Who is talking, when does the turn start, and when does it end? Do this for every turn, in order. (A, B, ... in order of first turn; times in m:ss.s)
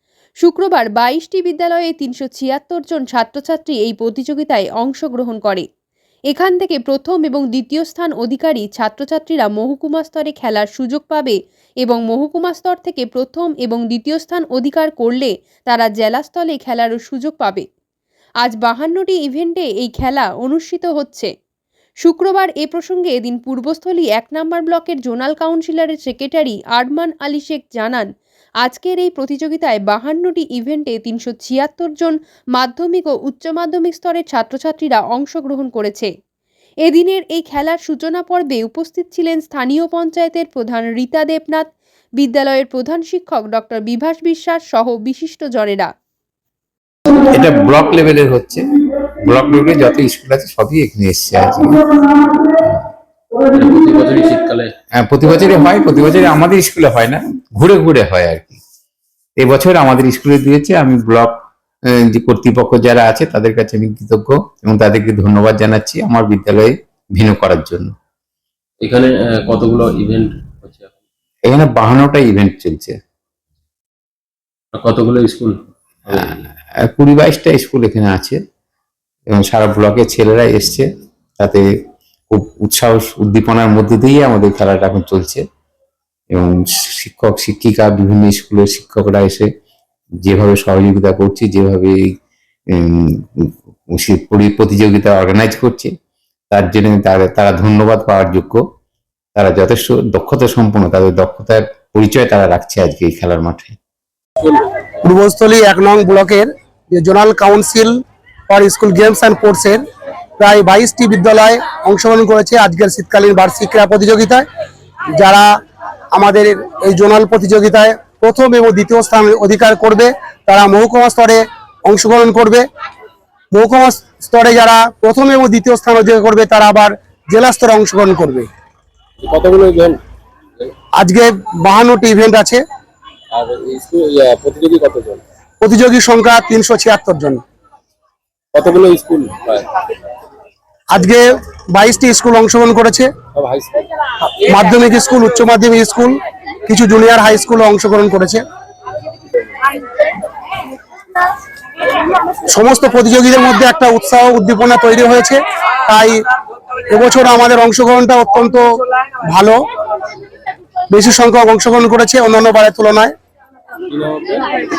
0:00.4-0:05.6 A
0:06.3-0:17.7 A
0:18.4-0:21.3 A
0:22.0-0:28.1 A
0:28.6-0:36.1 A
0:36.8-0:45.9 A
0:47.2-0:48.7 B
0:49.2-0:52.8 B
0:53.5-0:54.8 C
0:55.0-0:58.6 B
0:59.4-1:01.3 B
1:01.9-1:07.9 B
1:08.8-1:10.9 C
1:11.4-1:13.0 B
1:14.7-1:16.4 C
1:16.1-1:18.4 B
1:19.3-1:21.6 B
1:22.3-1:25.4 B
1:26.3-1:29.5 B
1:30.2-1:32.0 B
1:32.7-1:35.9 B
1:36.5-1:38.6 B
1:39.3-1:43.8 B
1:44.4-1:44.7 C
1:45.0-1:48.0 D
1:48.5-1:49.8 D
1:50.4-1:54.5 D
1:55.2-1:55.5 D
1:56.1-2:02.6 D
2:03.5-2:08.5 D
2:09.2-2:10.0 C
2:11.0-2:12.6 D
2:13.3-2:15.2 C
2:15.6-2:17.4 D
2:18.5-2:19.7 C
2:20.9-2:23.1 D
2:23.3-2:23.9 C
2:24.4-2:26.2 D
2:26.7-2:28.4 D
2:32.5-2:36.2 D
2:36.9-2:38.7 D
2:39.2-2:39.6 D
2:40.9-2:43.1 D
2:43.9-2:44.4 C